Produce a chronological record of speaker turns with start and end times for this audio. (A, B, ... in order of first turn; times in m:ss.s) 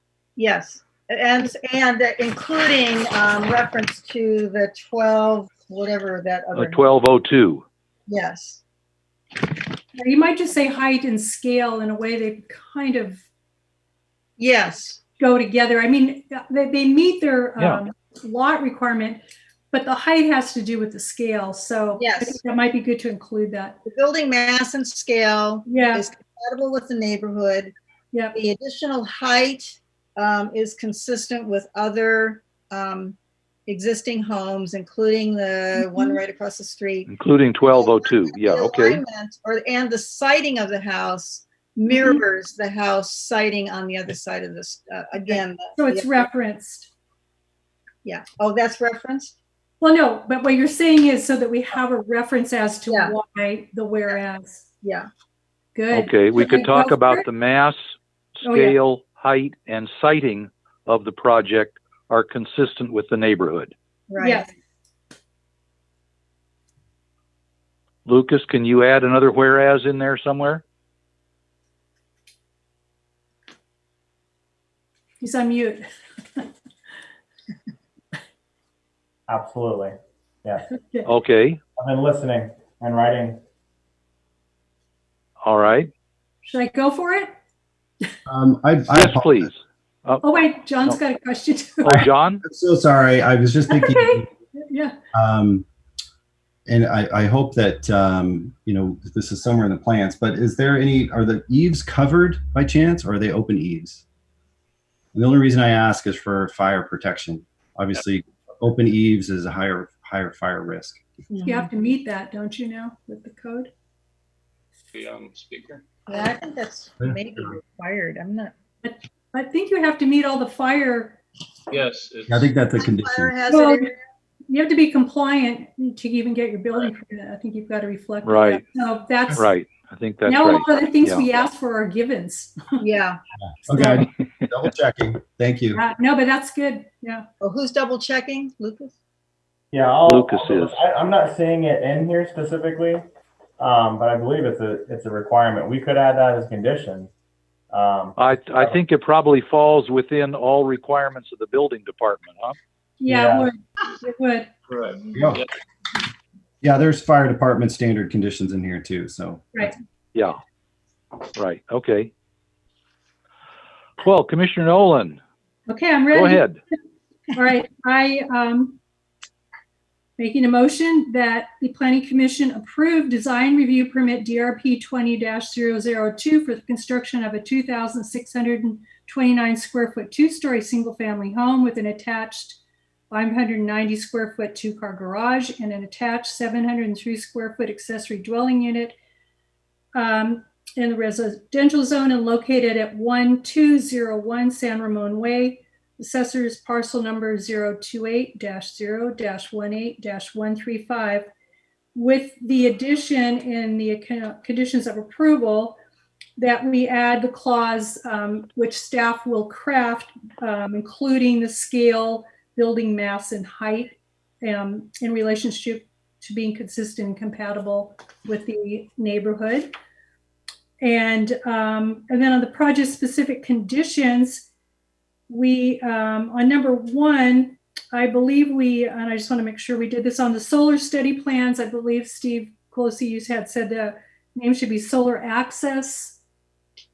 0:00.4-0:06.9 A
0:06.5-0:07.6 B
0:08.1-0:08.6 A
0:10.0-0:13.2 C
0:14.4-0:15.0 A
0:15.2-0:23.8 C
0:17.6-0:17.8 B
0:22.0-0:22.4 A
0:23.8-0:27.7 A
0:25.7-0:26.0 C
0:28.1-0:28.4 C
0:28.3-0:33.2 A
0:33.7-0:37.1 A
0:35.8-0:36.2 C
0:37.1-0:39.0 B
0:37.7-0:46.3 A
0:41.9-0:42.2 C
0:45.3-0:46.9 C
0:48.0-0:49.3 A
0:49.8-0:54.7 C
0:52.9-0:53.1 A
0:54.8-0:55.1 A
0:55.7-0:57.2 C
0:55.9-1:03.7 B
0:58.4-0:58.8 C
1:04.1-1:04.4 A
1:04.2-1:04.5 C
1:08.0-1:10.6 B
1:15.2-1:16.5 C
1:19.3-1:19.9 D
1:20.7-1:21.1 C
1:21.0-1:21.6 B
1:21.8-1:23.4 D
1:25.4-1:25.9 B
1:26.4-1:27.3 C
1:28.2-1:29.5 E
1:28.9-1:31.0 B
1:30.2-1:32.0 C
1:31.8-1:32.4 B
1:31.9-1:34.3 E
1:33.7-1:35.0 C
1:35.1-1:35.6 E
1:36.6-1:44.0 E
1:45.1-1:51.0 E
1:51.3-1:51.7 A
1:51.4-1:53.7 C
1:54.9-1:56.2 F
1:56.1-1:58.5 A
1:58.8-2:01.2 C
2:01.7-2:02.4 F
2:02.3-2:03.3 E
2:02.8-2:04.0 A
2:03.5-2:03.9 C
2:04.5-2:09.5 C
2:08.2-2:08.6 B
2:09.3-2:11.2 B
2:10.2-2:12.8 C
2:12.8-2:13.2 A
2:13.6-2:15.8 E
2:13.7-2:14.1 C
2:15.7-2:17.2 C
2:17.4-2:18.9 A
2:19.7-2:23.0 D
2:20.0-2:20.8 B
2:23.6-2:27.1 D
2:27.7-2:28.7 D
2:28.2-2:32.6 B
2:33.0-2:34.5 C
2:33.1-2:33.5 D
2:34.7-2:35.4 F
2:35.1-2:35.4 E
2:36.6-2:39.4 E
2:40.1-2:40.4 B
2:41.3-2:42.1 B
2:44.0-2:45.2 B
2:45.7-2:46.5 C
2:46.1-2:46.6 B
2:47.3-2:48.8 C
2:50.2-3:09.0 C
3:09.9-3:21.3 C
3:21.9-3:25.8 C
3:26.4-3:39.7 C
3:40.8-3:44.5 C
3:45.3-3:56.2 C